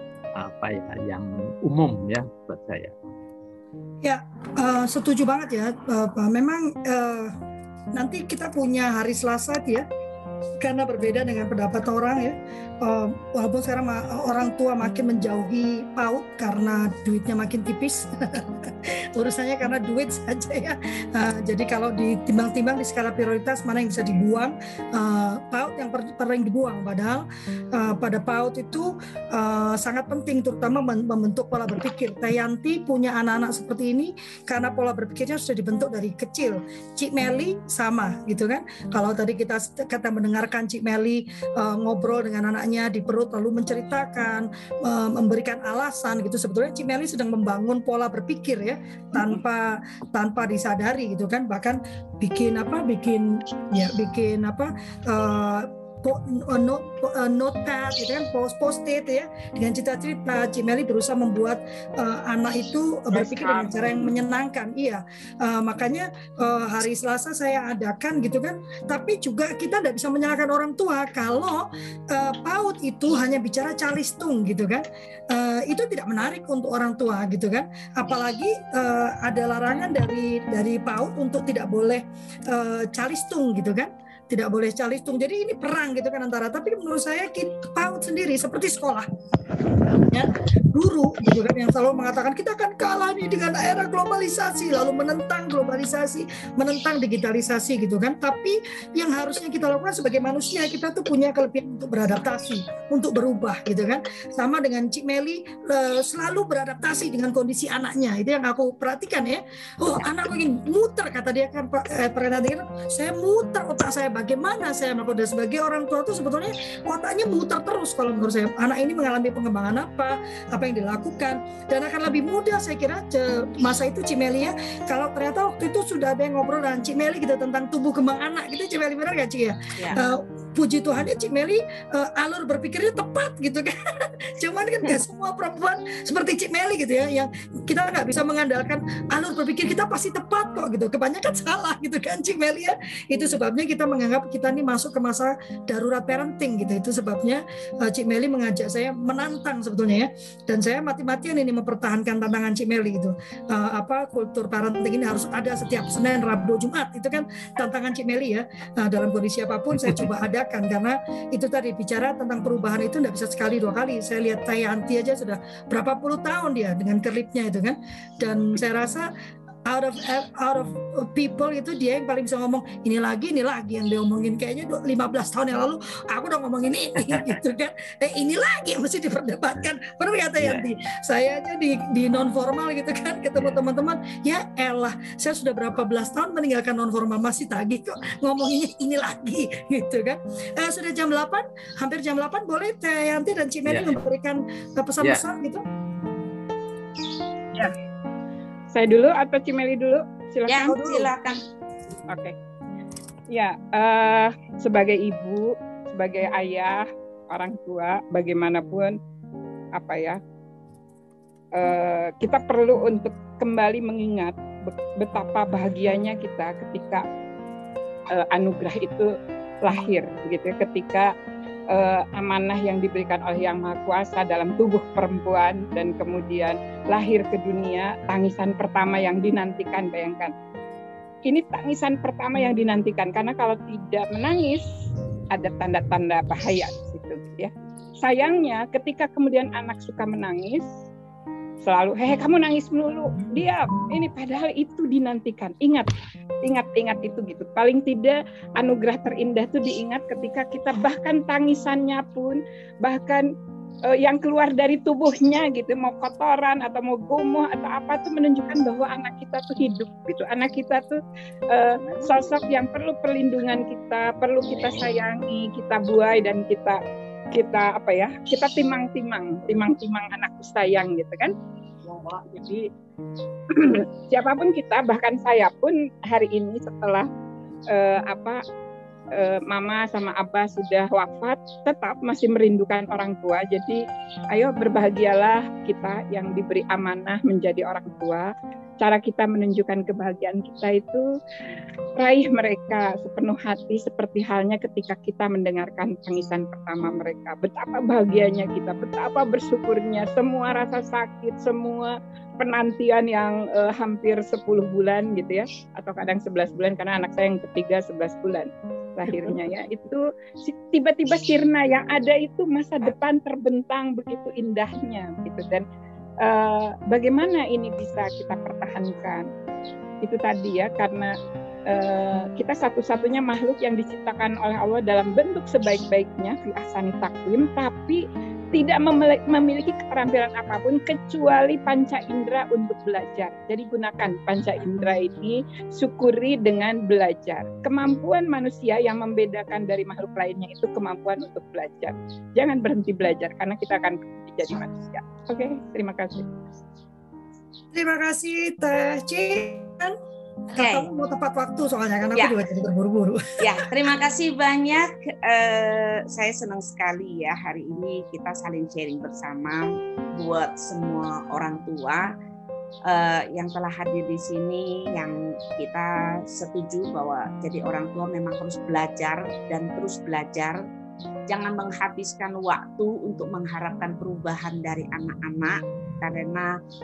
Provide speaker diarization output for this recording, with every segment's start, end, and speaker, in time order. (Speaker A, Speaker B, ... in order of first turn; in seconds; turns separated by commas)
Speaker A: 0.3-2.9, Speaker B: 4.0-7.4, Speaker B: 8.0-9.8, Speaker B: 10.6-89.1, Speaker C: 63.1-64.1, Speaker B: 90.0-169.1, Speaker B: 169.7-195.6, Speaker A: 180.4-180.7, Speaker A: 193.7-194.0, Speaker C: 198.7-201.1, Speaker D: 200.5-201.4, Speaker C: 202.1-202.3, Speaker C: 203.3-209.0, Speaker C: 209.8-210.2, Speaker C: 211.6-217.0, Speaker C: 218.1-221.1, Speaker C: 221.7-230.3, Speaker C: 231.3-234.7, Speaker C: 235.3-240.7, Speaker C: 241.6-245.9, Speaker C: 246.4-253.3, Speaker C: 253.9-261.0, Speaker C: 261.5-266.8, Speaker D: 261.7-262.3, Speaker C: 267.3-271.3, Speaker D: 271.9-272.2, Speaker C: 272.2-272.6, Speaker C: 273.5-277.1, Speaker C: 277.7-278.4, Speaker C: 279.1-288.3, Speaker C: 288.8-291.1, Speaker C: 292.0-315.6, Speaker C: 316.2-319.3, Speaker C: 320.0-321.1, Speaker C: 321.7-328.0, Speaker C: 328.5-346.3, Speaker B: 347.7-349.9, Speaker B: 350.5-353.7, Speaker D: 350.6-350.9, Speaker D: 353.4-362.1, Speaker D: 362.9-370.6, Speaker D: 371.3-376.5